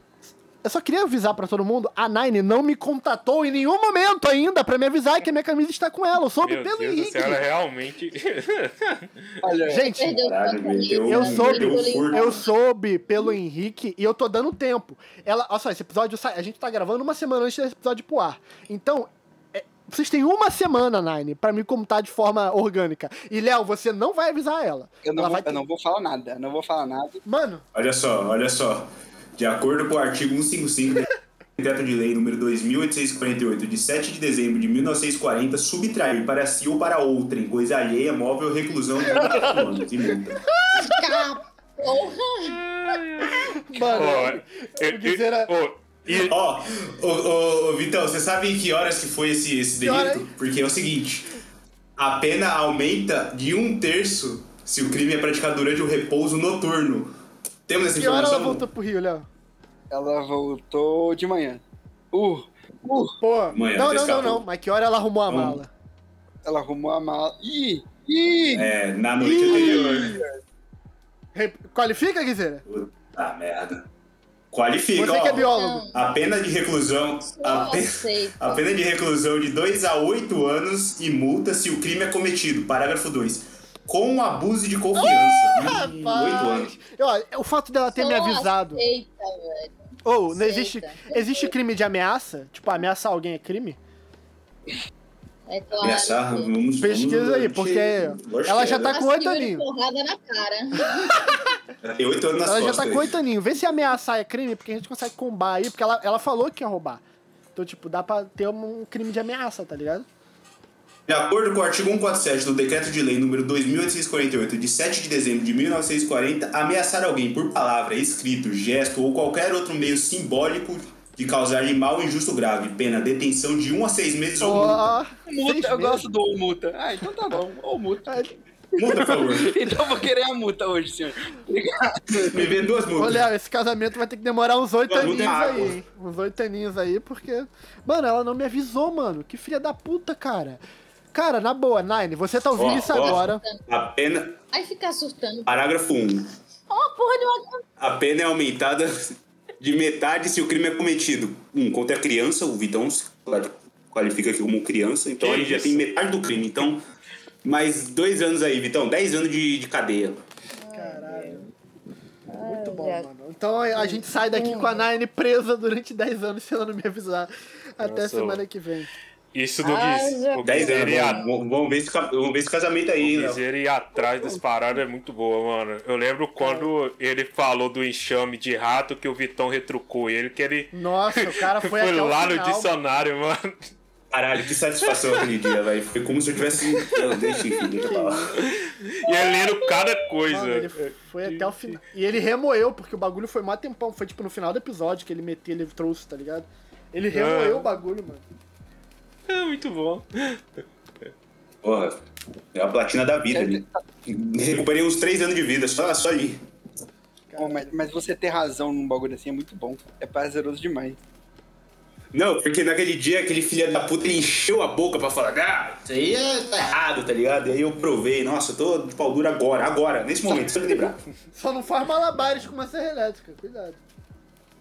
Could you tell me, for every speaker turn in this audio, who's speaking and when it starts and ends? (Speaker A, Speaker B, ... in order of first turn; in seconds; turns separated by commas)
Speaker A: 0.2-7.4, Speaker B: 6.4-9.3, Speaker C: 9.4-9.9, Speaker A: 9.7-10.2, Speaker D: 9.7-12.4, Speaker E: 10.2-12.3, Speaker A: 11.0-25.6, Speaker C: 25.0-27.2, Speaker A: 27.2-27.6, Speaker E: 27.7-40.4, Speaker A: 40.5-41.4, Speaker D: 40.8-42.6, Speaker B: 42.4-46.3, Speaker A: 43.3-45.5, Speaker E: 46.1-51.3, Speaker A: 49.8-50.3, Speaker E: 52.0-57.1, Speaker E: 57.7-58.6, Speaker A: 57.9-59.3, Speaker C: 59.9-63.2, Speaker A: 63.2-65.7, Speaker E: 63.5-64.4, Speaker E: 65.3-65.6, Speaker C: 66.4-68.7, Speaker E: 68.5-70.2, Speaker A: 69.2-70.2, Speaker C: 69.3-70.3, Speaker A: 71.3-72.6, Speaker E: 72.7-73.8, Speaker E: 74.5-86.7, Speaker A: 74.9-75.8, Speaker D: 75.3-76.0, Speaker D: 77.3-78.6, Speaker A: 84.9-88.8, Speaker D: 87.9-89.7, Speaker A: 90.0-93.8, Speaker D: 90.3-91.5, Speaker D: 95.5-96.5, Speaker E: 95.8-98.9, Speaker A: 96.8-99.6, Speaker D: 98.6-101.4, Speaker A: 100.8-101.5, Speaker E: 101.8-103.1, Speaker A: 102.4-107.0, Speaker A: 107.5-110.0, Speaker E: 111.1-124.8, Speaker A: 124.4-126.1, Speaker C: 125.3-132.5, Speaker A: 128.1-128.3, Speaker E: 128.8-129.6, Speaker E: 132.1-133.2, Speaker A: 132.9-140.6, Speaker E: 134.9-135.8, Speaker A: 141.1-143.4, Speaker E: 142.6-144.4, Speaker D: 142.6-143.6, Speaker D: 144.5-145.5, Speaker E: 145.4-146.3, Speaker D: 146.7-147.6, Speaker E: 147.8-156.8, Speaker B: 155.2-155.9, Speaker E: 157.4-160.2, Speaker D: 160.6-161.5, Speaker A: 160.7-161.4, Speaker D: 162.3-163.1, Speaker A: 162.4-168.9, Speaker D: 163.7-164.8, Speaker B: 167.8-168.4, Speaker B: 169.3-171.2, Speaker D: 169.6-171.3, Speaker E: 170.4-173.4, Speaker B: 173.0-183.7, Speaker C: 174.0-174.4, Speaker A: 176.4-176.7, Speaker A: 180.7-182.7, Speaker E: 184.1-188.3, Speaker B: 184.9-185.2, Speaker B: 186.8-187.5, Speaker A: 187.8-188.3, Speaker B: 188.4-191.8, Speaker A: 190.3-198.2, Speaker B: 197.1-197.7, Speaker B: 199.3-200.4, Speaker E: 201.6-202.0, Speaker E: 202.5-206.4, Speaker C: 203.3-203.8, Speaker A: 207.3-207.8, Speaker C: 207.4-211.0, Speaker E: 212.1-221.0, Speaker A: 221.3-223.8